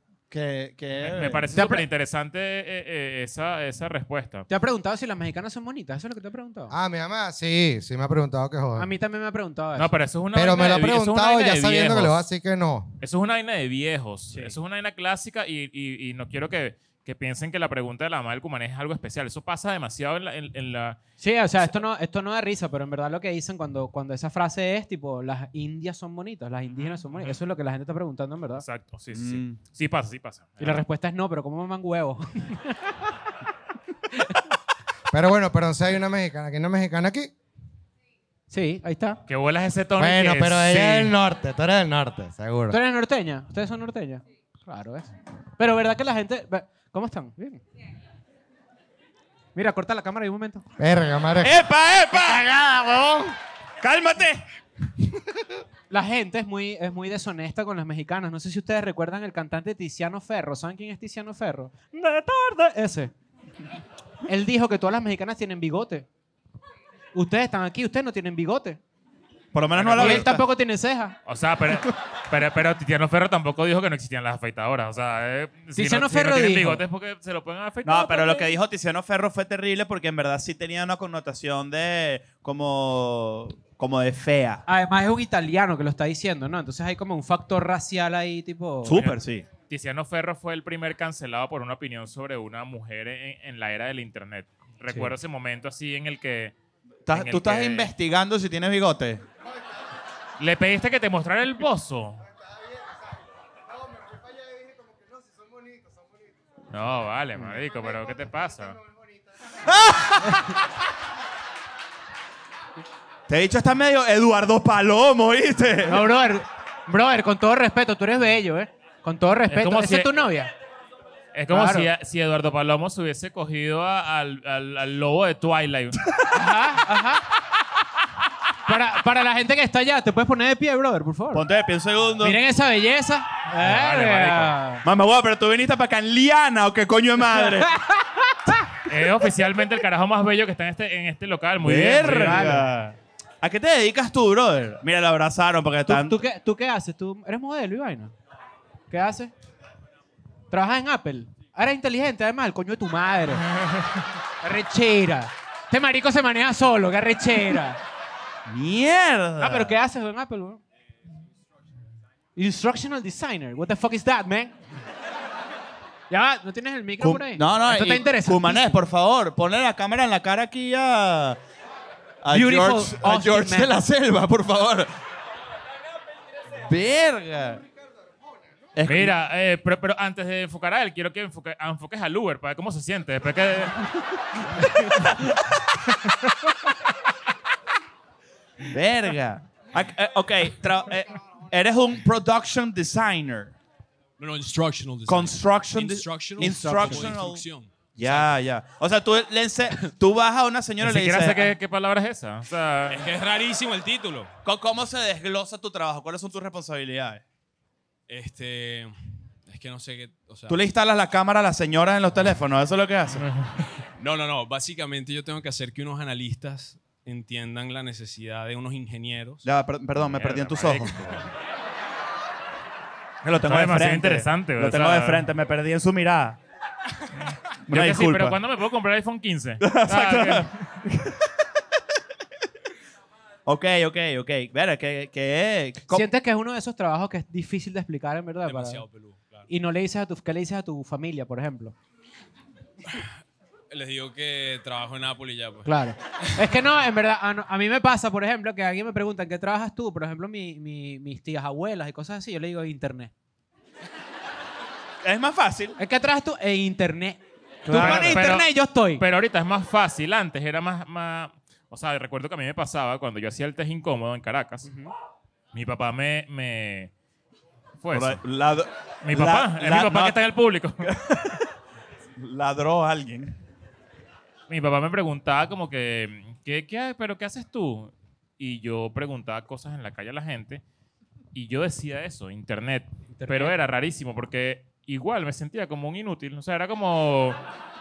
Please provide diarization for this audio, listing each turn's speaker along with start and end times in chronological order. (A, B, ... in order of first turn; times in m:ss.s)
0:00.3-0:01.4 A
0:01.0-0:04.5 B
0:01.6-0:01.8 C
0:04.5-0:06.7 C
0:06.7-0:08.9 D
0:08.8-0:09.9 C
0:09.8-0:12.2 B
0:10.3-0:12.9 D
0:13.0-0:21.0 B
0:21.2-0:28.6 C
0:26.7-0:27.4 B
0:28.6-0:30.8 B
0:29.1-0:29.6 A
0:30.6-0:33.0 C
0:34.1-0:34.4 C
0:35.1-0:37.3 D
0:38.5-0:39.2 C
0:39.3-0:41.2 B
0:40.0-0:42.8 D
0:42.7-0:47.6 C
0:49.6-0:50.7 C
0:50.8-0:51.6 D
0:51.4-0:52.4 A
0:52.2-0:53.3 D
0:53.8-0:54.4 A
0:55.9-1:03.1 C
1:04.3-1:06.1 C
1:07.1-1:08.8 C
1:09.5-1:10.4 A
1:09.8-1:10.4 B
1:10.0-1:11.2 C
1:11.3-1:18.5 B
1:15.8-1:16.8 C
1:17.8-1:24.6 A
1:24.7-1:29.0 C
1:28.8-1:29.5 A
1:29.7-1:36.6 B
1:34.9-1:35.1 C
1:37.1-1:39.2 A
1:37.1-1:37.9 B
1:40.4-1:42.2 B
1:46.7-1:48.8 B
1:49.6-1:50.4 A
1:53.3-1:56.1 A
1:55.8-2:00.5 C
1:59.5-2:00.3 B
2:01.3-2:06.1 B
2:01.5-2:01.9 C
2:06.3-2:07.2 C
2:08.7-2:11.4 C
2:11.3-2:12.4 A
2:12.2-2:14.8 C
2:13.6-2:14.6 B
2:14.8-2:17.7 A
2:17.4-2:18.7 C
2:18.9-2:22.6 B
2:21.6-2:26.2 A
2:22.0-2:22.7 C
2:25.9-2:28.1 C
2:28.9-2:29.3 C
2:30.5-2:33.4 C
2:34.4-2:37.8 C
2:38.5-2:39.8 A
2:39.4-2:40.6 C
2:42.4-2:44.6 C
2:46.1-2:48.8 C
2:47.0-2:51.4 A
2:52.2-2:54.9 A
2:52.3-2:53.8 C
2:56.6-2:57.6 A
2:58.8-2:59.2 A
2:58.9-3:03.8 B
3:08.6-3:13.5 A
3:14.2-3:18.3 E
3:15.1-3:21.5 A
3:16.8-3:17.1 C
3:20.8-3:23.1 B
3:22.9-3:24.3 E
3:24.4-3:27.2 A
3:28.1-3:28.9 E
3:29.5-3:30.6 E
3:30.5-3:33.3 A
3:34.0-3:39.4 E
3:39.4-3:41.2 A
3:40.0-3:41.3 B
3:43.2-3:46.4 A
3:43.4-3:45.3 B
3:47.7-3:48.4 A
3:47.7-3:50.6 B
3:49.6-3:51.3 A
3:53.5-3:56.1 A
3:55.9-3:58.8 C
3:58.4-3:59.5 E
3:59.5-4:01.8 C
4:03.7-4:05.7 E
4:05.6-4:13.1 C
4:15.0-4:15.8 A
4:15.8-4:19.0 C
4:17.6-4:18.3 A
4:17.7-4:24.7 B
4:24.7-4:24.9 C
4:25.5-4:26.9 B
4:27.8-4:28.2 B
4:27.9-4:30.2 A
4:29.0-4:30.9 B
4:30.8-4:31.5 A
4:32.2-4:33.4 A
4:34.5-4:40.6 B
4:41.3-4:47.4 B
4:43.1-4:43.6 C